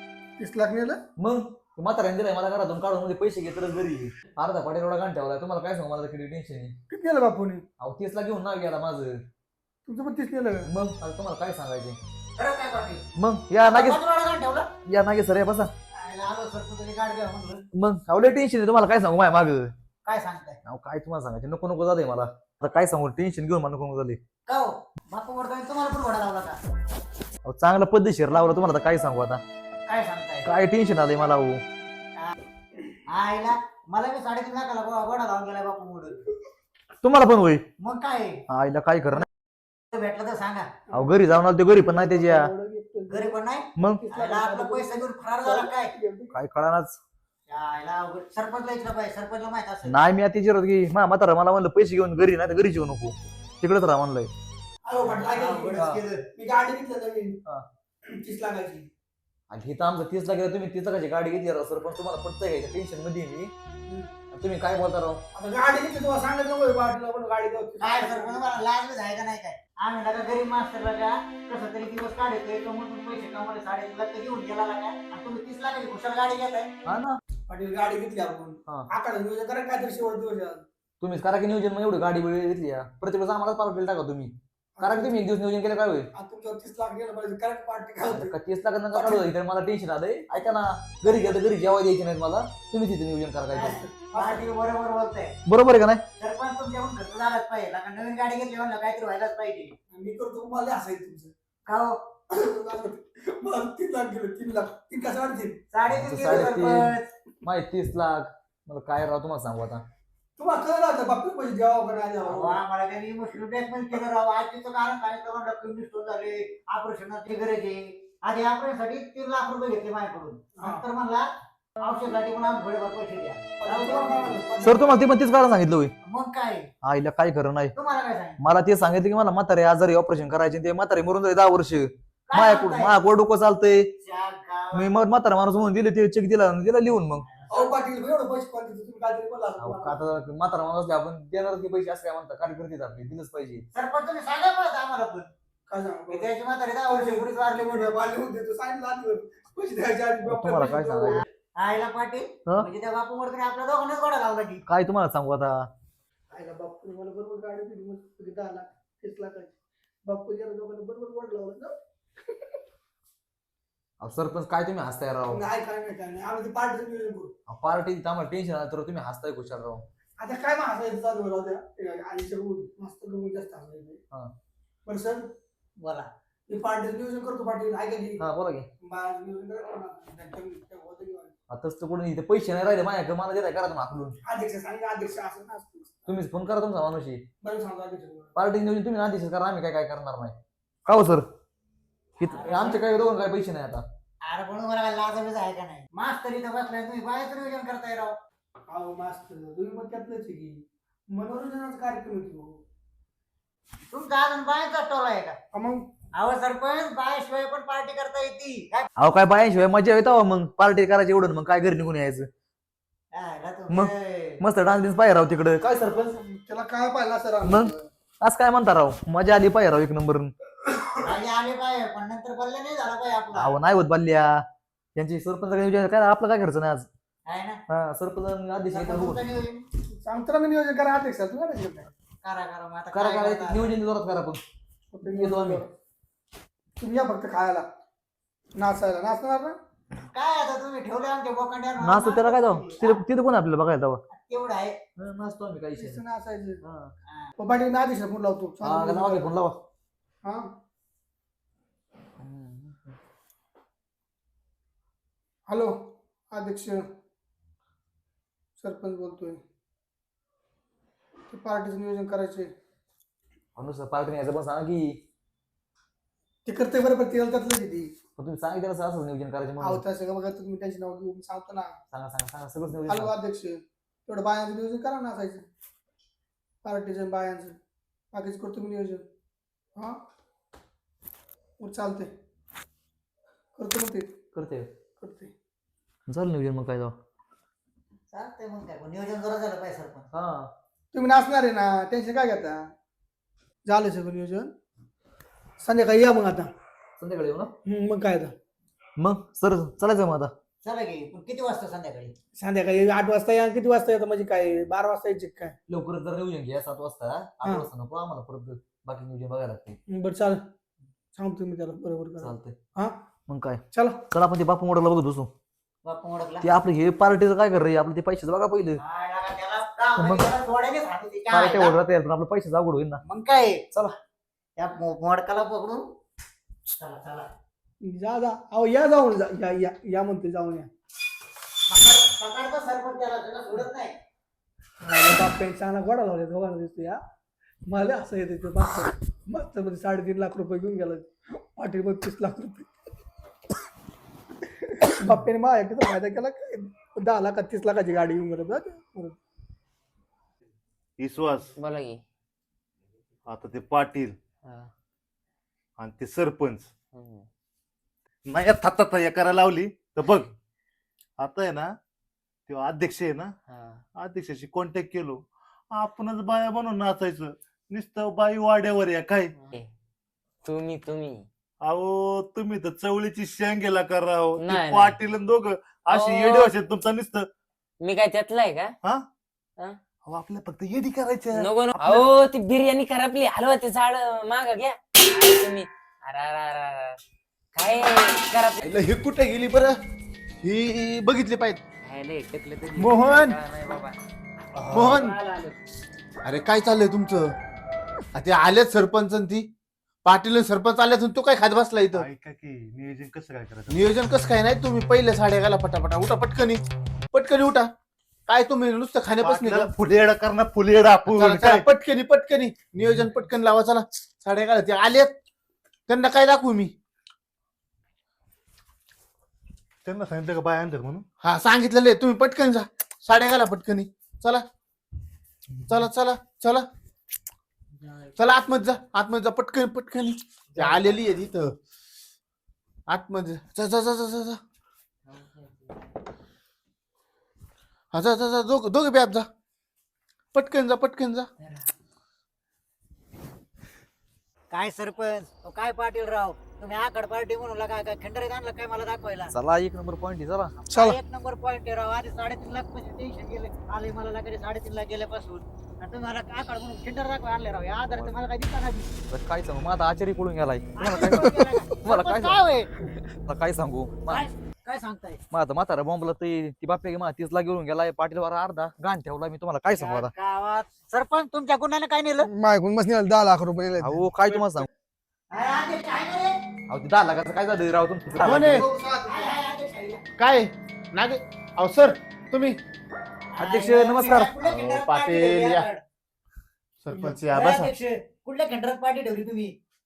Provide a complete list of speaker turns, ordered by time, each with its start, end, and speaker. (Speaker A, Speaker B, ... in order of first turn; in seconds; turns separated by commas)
Speaker A: 0.4-1.0, Speaker B: 1.2-6.7, Speaker A: 6.9-7.6, Speaker B: 7.8-9.1, Speaker A: 9.8-10.6, Speaker B: 10.6-12.0, Speaker C: 12.3-13.1, Speaker B: 13.2-14.0, Speaker C: 13.6-14.7, Speaker B: 14.9-15.7, Speaker C: 16.0-17.6, Speaker B: 17.7-19.7, Speaker C: 20.0-20.6, Speaker B: 20.6-24.2, Speaker C: 24.5-26.6, Speaker B: 27.5-29.4, Speaker C: 29.9-30.5, Speaker B: 30.4-31.6, Speaker C: 33.1-36.2, Speaker B: 37.0-37.6, Speaker C: 37.8-38.4, Speaker B: 38.5-39.3, Speaker C: 39.9-40.8, Speaker B: 40.9-42.5, Speaker A: 41.8-46.3, Speaker C: 43.1-45.9, Speaker B: 43.8-44.0, Speaker B: 46.3-47.0, Speaker C: 47.5-50.0, Speaker B: 49.9-54.3, Speaker A: 54.8-57.4, Speaker C: 55.0-56.2, Speaker A: 58.0-58.9, Speaker B: 59.5-63.5, Speaker A: 63.9-64.1, Speaker B: 64.3-65.2, Speaker A: 65.3-68.6, Speaker C: 67.8-76.7, Speaker B: 76.8-77.2, Speaker A: 77.5-80.7, Speaker B: 81.0-86.1, Speaker A: 84.8-85.1, Speaker A: 86.1-88.3, Speaker B: 88.1-93.8, Speaker A: 88.9-89.2, Speaker C: 93.5-95.3, Speaker A: 93.7-94.4, Speaker B: 95.5-96.0, Speaker C: 96.2-99.7, Speaker A: 99.9-101.3, Speaker C: 101.7-102.0, Speaker A: 102.3-105.6, Speaker C: 105.7-107.1, Speaker B: 105.9-106.9, Speaker B: 107.4-109.8, Speaker A: 110.4-112.6, Speaker C: 112.2-121.3, Speaker A: 120.6-120.8, Speaker C: 121.8-124.3, Speaker A: 123.6-125.1, Speaker B: 124.6-125.9, Speaker C: 126.0-126.7, Speaker B: 126.8-127.7, Speaker C: 127.7-128.4, Speaker B: 128.4-133.9, Speaker C: 132.3-132.9, Speaker C: 134.0-134.9, Speaker B: 134.7-137.2, Speaker C: 137.3-137.7, Speaker A: 137.5-140.0, Speaker B: 139.6-143.6, Speaker C: 143.7-145.3, Speaker A: 145.7-146.3, Speaker C: 146.1-147.9, Speaker A: 146.9-151.1, Speaker B: 150.2-151.2, Speaker C: 151.1-154.6, Speaker B: 154.7-155.7, Speaker A: 156.3-161.7, Speaker A: 162.3-162.6, Speaker B: 164.0-165.4, Speaker A: 165.3-167.3, Speaker B: 167.5-169.8, Speaker A: 170.2-174.0, Speaker A: 174.8-175.3, Speaker C: 175.8-176.1, Speaker A: 176.5-178.2, Speaker B: 178.2-178.7, Speaker A: 178.8-181.3, Speaker B: 181.5-184.2, Speaker A: 184.2-186.0, Speaker B: 186.1-187.2, Speaker A: 187.4-188.3, Speaker B: 188.3-191.2, Speaker B: 192.2-193.8, Speaker C: 192.3-192.8, Speaker C: 194.2-198.2, Speaker A: 198.7-202.6, Speaker C: 203.9-205.4, Speaker A: 205.5-205.9, Speaker C: 206.1-208.9, Speaker B: 209.0-212.3, Speaker C: 213.1-214.4, Speaker B: 213.7-216.0, Speaker A: 215.7-217.8, Speaker B: 217.4-220.3, Speaker C: 221.0-223.5, Speaker B: 223.3-224.4, Speaker B: 224.9-226.9, Speaker C: 227.2-227.6, Speaker B: 227.7-229.2, Speaker C: 228.7-229.6, Speaker A: 229.9-231.9, Speaker C: 232.2-233.8, Speaker B: 232.9-234.4, Speaker A: 234.9-235.7, Speaker B: 235.1-235.6, Speaker A: 236.8-237.7, Speaker A: 238.5-239.6, Speaker C: 240.1-243.0, Speaker B: 241.8-244.0, Speaker C: 244.1-244.8, Speaker B: 245.0-246.0, Speaker A: 245.8-246.6, Speaker B: 246.6-246.9, Speaker A: 247.4-249.2, Speaker B: 248.6-249.6, Speaker A: 250.2-250.5, Speaker B: 252.2-252.9, Speaker A: 255.5-256.9, Speaker A: 258.6-259.4, Speaker A: 261.3-262.5, Speaker B: 263.6-265.0, Speaker A: 266.4-267.9, Speaker B: 268.2-269.8, Speaker A: 269.6-271.7, Speaker B: 271.9-273.1, Speaker A: 272.9-275.4, Speaker A: 276.6-277.6, Speaker A: 278.1-279.1, Speaker A: 279.8-280.0, Speaker A: 281.6-282.1, Speaker A: 283.6-284.1, Speaker B: 284.3-284.7, Speaker A: 285.0-285.3, Speaker B: 286.1-286.9, Speaker C: 288.1-290.1, Speaker B: 290.1-290.5, Speaker A: 290.9-292.7, Speaker A: 293.6-294.5, Speaker A: 295.6-296.5, Speaker B: 297.0-297.5, Speaker A: 297.6-298.4, Speaker B: 299.0-300.3, Speaker C: 300.6-302.1, Speaker A: 302.4-305.5, Speaker B: 305.7-309.8, Speaker A: 309.9-310.4, Speaker A: 311.1-313.0, Speaker B: 312.2-312.5, Speaker B: 313.3-315.3, Speaker A: 313.7-314.0, Speaker C: 315.8-316.5, Speaker B: 316.4-318.8, Speaker C: 318.8-321.8, Speaker B: 320.0-320.2, Speaker B: 321.3-323.0, Speaker C: 323.0-323.6, Speaker C: 324.6-325.8, Speaker C: 326.7-327.3, Speaker A: 327.8-330.7, Speaker C: 331.7-333.9, Speaker A: 334.8-337.0, Speaker A: 337.6-342.7, Speaker A: 344.6-349.2, Speaker D: 351.0-351.5, Speaker E: 351.6-352.0, Speaker D: 353.3-354.1, Speaker E: 354.4-354.7, Speaker D: 355.8-356.7, Speaker E: 356.9-357.2, Speaker D: 358.3-360.3, Speaker D: 361.2-361.7, Speaker D: 362.5-363.3, Speaker E: 363.5-363.8, Speaker D: 364.0-365.2, Speaker D: 365.7-369.3, Speaker E: 370.4-371.2, Speaker D: 371.6-377.2, Speaker E: 374.4-374.9, Speaker E: 375.9-376.5, Speaker E: 377.8-378.7, Speaker D: 380.1-382.0, Speaker E: 381.3-387.0, Speaker E: 387.5-388.6, Speaker F: 388.6-389.8, Speaker F: 390.4-391.6, Speaker E: 391.8-394.0, Speaker F: 392.7-393.4, Speaker F: 394.6-395.2, Speaker B: 394.7-394.9, Speaker F: 396.2-397.3, Speaker F: 398.1-399.5, Speaker F: 400.0-402.1, Speaker D: 401.9-403.9, Speaker F: 403.7-406.6, Speaker F: 407.1-407.7, Speaker F: 408.3-409.7, Speaker D: 409.2-411.7, Speaker F: 411.1-415.1, Speaker F: 415.9-416.7, Speaker D: 419.9-421.0, Speaker F: 421.2-424.4, Speaker F: 425.7-426.7, Speaker F: 428.1-431.5, Speaker F: 432.9-434.4, Speaker E: 435.1-435.5, Speaker F: 437.9-439.3, Speaker F: 440.3-441.3, Speaker C: 444.5-449.3, Speaker B: 449.3-450.5, Speaker C: 450.6-458.9, Speaker B: 459.1-462.4, Speaker C: 460.8-462.7, Speaker B: 463.2-464.3, Speaker C: 464.1-465.2, Speaker B: 465.3-470.1, Speaker C: 469.7-472.3, Speaker A: 472.4-473.8, Speaker B: 473.8-474.7, Speaker C: 475.3-476.4, Speaker B: 476.7-478.6, Speaker F: 478.2-478.6, Speaker A: 478.5-479.1, Speaker C: 479.1-480.0, Speaker F: 480.2-482.6, Speaker C: 483.4-485.8, Speaker B: 483.4-484.3, Speaker F: 484.4-485.6, Speaker F: 486.8-487.7, Speaker C: 487.3-489.5